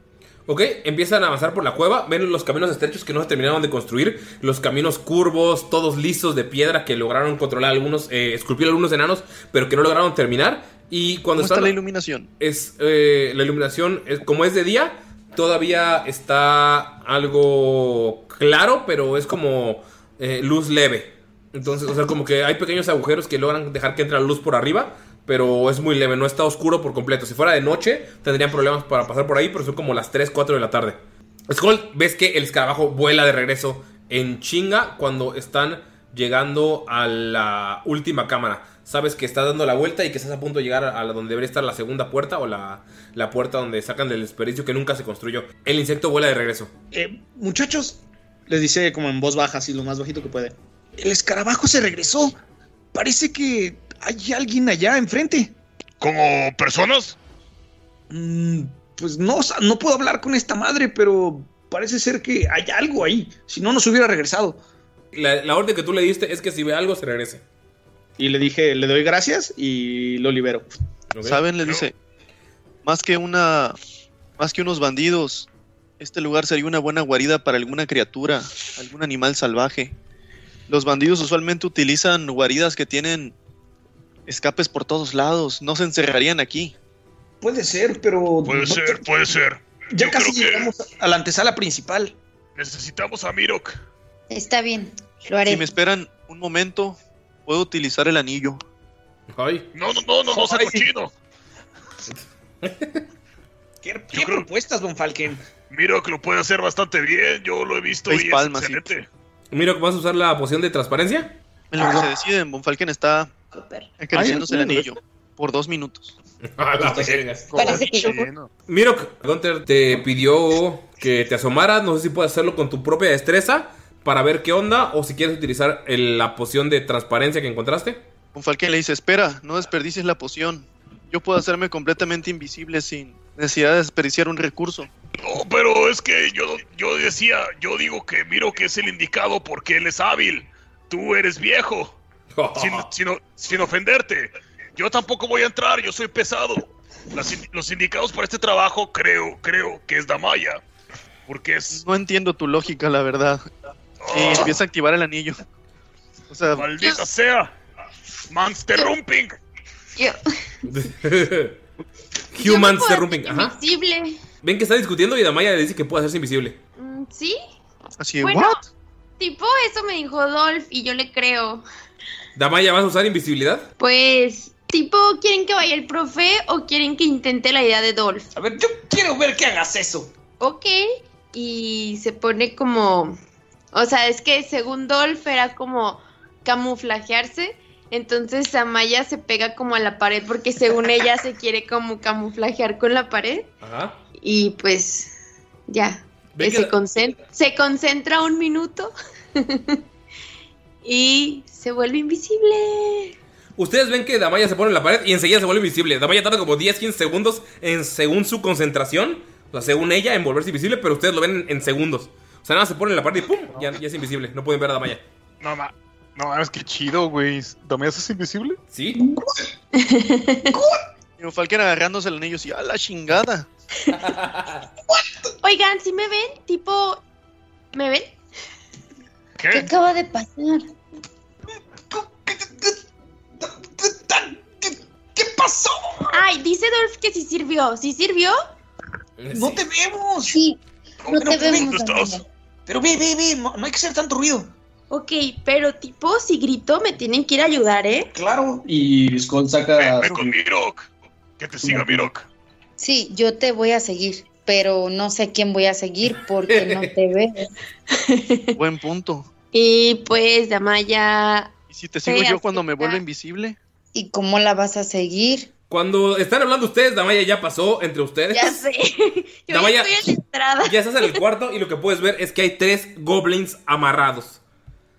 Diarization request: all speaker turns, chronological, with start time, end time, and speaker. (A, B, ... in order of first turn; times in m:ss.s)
0:00.5-0:11.8 A
0:11.4-0:12.3 B
0:12.4-0:46.7 A
0:46.9-0:52.4 C
0:52.9-0:55.5 C
0:56.0-0:57.2 D
0:58.1-1:04.6 C
1:05.1-1:07.4 A
1:08.2-1:10.7 C
1:11.1-1:11.4 A
1:11.2-1:12.0 B
1:11.6-1:11.9 D
1:12.8-1:13.8 B
1:14.4-1:15.5 B
1:16.0-1:20.0 B
1:20.7-1:23.4 B
1:24.3-1:26.8 B
1:27.4-1:29.0 C
1:28.5-1:30.7 D
1:29.9-1:32.2 C
1:32.6-1:33.8 D
1:34.3-1:35.7 E
1:35.4-1:38.6 B
1:39.3-1:39.7 A
1:39.7-1:41.1 D
1:40.3-1:40.9 C
1:42.1-1:43.0 A
1:43.8-1:45.4 C
1:44.1-1:44.5 D
1:45.7-1:49.1 D
1:48.1-1:48.9 B
1:49.5-1:51.4 A
1:51.7-1:53.4 B
1:51.8-1:52.1 C
1:54.0-1:56.1 B
1:54.2-1:54.8 F
1:54.4-1:54.8 C
1:56.5-1:57.5 A
1:57.5-1:58.5 F
1:57.6-1:58.2 E
1:58.7-2:08.0 A
2:08.3-2:14.9 B
2:15.2-2:22.0 D
2:22.3-2:22.9 A
2:22.6-2:30.6 D
2:31.3-2:31.8 D
2:31.7-2:33.4 B
2:34.0-2:34.6 D
2:34.1-2:35.4 B
2:36.3-2:36.7 B
2:36.5-2:37.5 D
2:38.3-2:39.4 D
2:40.7-2:41.6 A
2:42.3-2:43.6 A
2:42.4-2:44.2 G
2:44.4-2:46.6 A
2:46.8-2:47.4 G
2:48.0-2:48.6 B
2:48.2-2:48.6 G
2:49.2-2:51.6 G
2:52.4-2:53.7 A
2:53.8-2:58.3 G
2:58.4-3:00.1 C
3:00.4-3:00.8 G
3:01.3-3:03.2 G
3:03.7-3:13.5 G
3:13.6-3:14.0 A
3:14.2-3:15.1 G
3:15.7-3:19.8 G
3:16.4-3:16.7 A
3:20.8-3:23.2 G
3:23.6-3:35.0 A
3:35.4-3:38.6 F
3:38.7-3:39.0 A
3:39.8-3:40.6 G
3:40.5-3:40.8 C
3:41.2-3:43.5 B
3:43.9-3:44.6 A
3:45.4-3:47.0 G
3:47.7-3:48.2 G
3:49.4-3:49.7 D
3:49.5-3:50.6 E
3:51.9-3:52.8 C
3:53.4-3:56.2 C
3:56.1-3:58.4 G
3:59.2-3:59.6 A
3:59.3-4:00.4 C
4:00.3-4:02.2 E
4:01.1-4:02.2 D
4:01.2-4:01.7 C
4:02.7-4:04.5 C
4:04.9-4:08.1 G
4:08.1-4:10.4 C
4:09.8-4:12.3 D
4:11.6-4:12.1 C
4:12.8-4:17.5 E
4:16.5-4:16.9 A
4:17.9-4:18.6 G
4:18.6-4:19.3 B
4:19.5-4:21.5 G
4:21.7-4:23.6 B
4:22.0-4:23.0 G
4:23.9-4:25.5 E
4:25.7-4:28.6 A
4:28.3-4:31.2 G
4:29.5-4:34.4 A